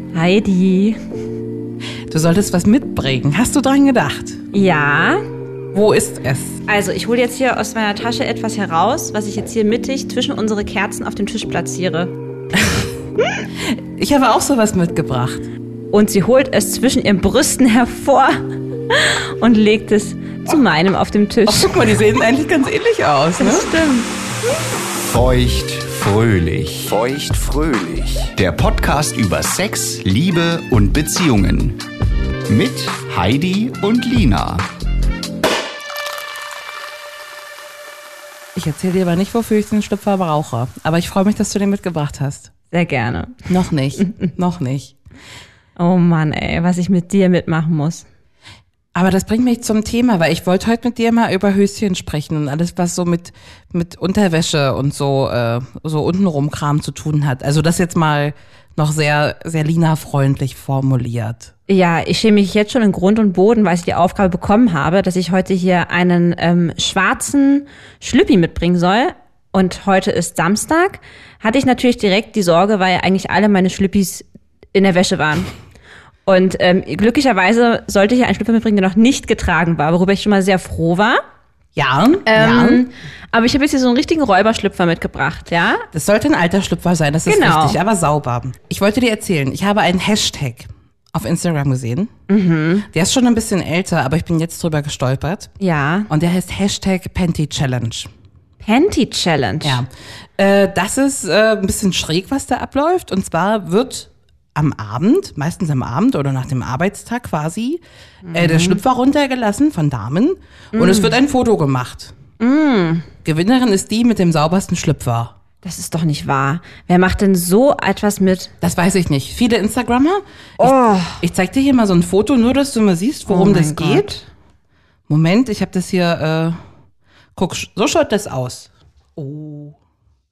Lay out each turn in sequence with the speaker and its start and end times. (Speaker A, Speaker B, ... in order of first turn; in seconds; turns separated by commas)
Speaker A: 0.1-1.0, Speaker B: 2.1-4.4, Speaker A: 4.5-5.2, Speaker B: 5.7-6.6, Speaker A: 6.7-12.1, Speaker B: 12.6-12.9, Speaker B: 13.6-15.5, Speaker A: 15.9-21.8, Speaker B: 21.5-23.7, Speaker A: 23.4-24.1, Speaker C: 25.0-31.8, Speaker C: 32.5-34.7, Speaker B: 38.6-42.5, Speaker A: 42.7-43.5, Speaker B: 43.5-45.0, Speaker A: 45.8-48.1, Speaker B: 48.9-61.5, Speaker A: 61.7-75.5, Speaker A: 76.3-81.2, Speaker B: 81.8-82.8, Speaker A: 82.3-85.9, Speaker B: 85.9-92.1, Speaker A: 87.3-87.8, Speaker A: 92.3-92.9, Speaker B: 92.9-95.5, Speaker A: 95.6-96.1, Speaker B: 96.1-98.1, Speaker A: 98.6-99.8, Speaker B: 99.6-107.8, Speaker A: 108.2-108.8, Speaker B: 108.3-112.2, Speaker A: 110.7-111.2, Speaker A: 112.4-113.1, Speaker B: 113.2-115.4, Speaker A: 115.6-118.5, Speaker B: 118.6-124.1, Speaker A: 120.6-121.2, Speaker A: 123.3-124.3, Speaker B: 125.1-126.6, Speaker B: 127.4-129.8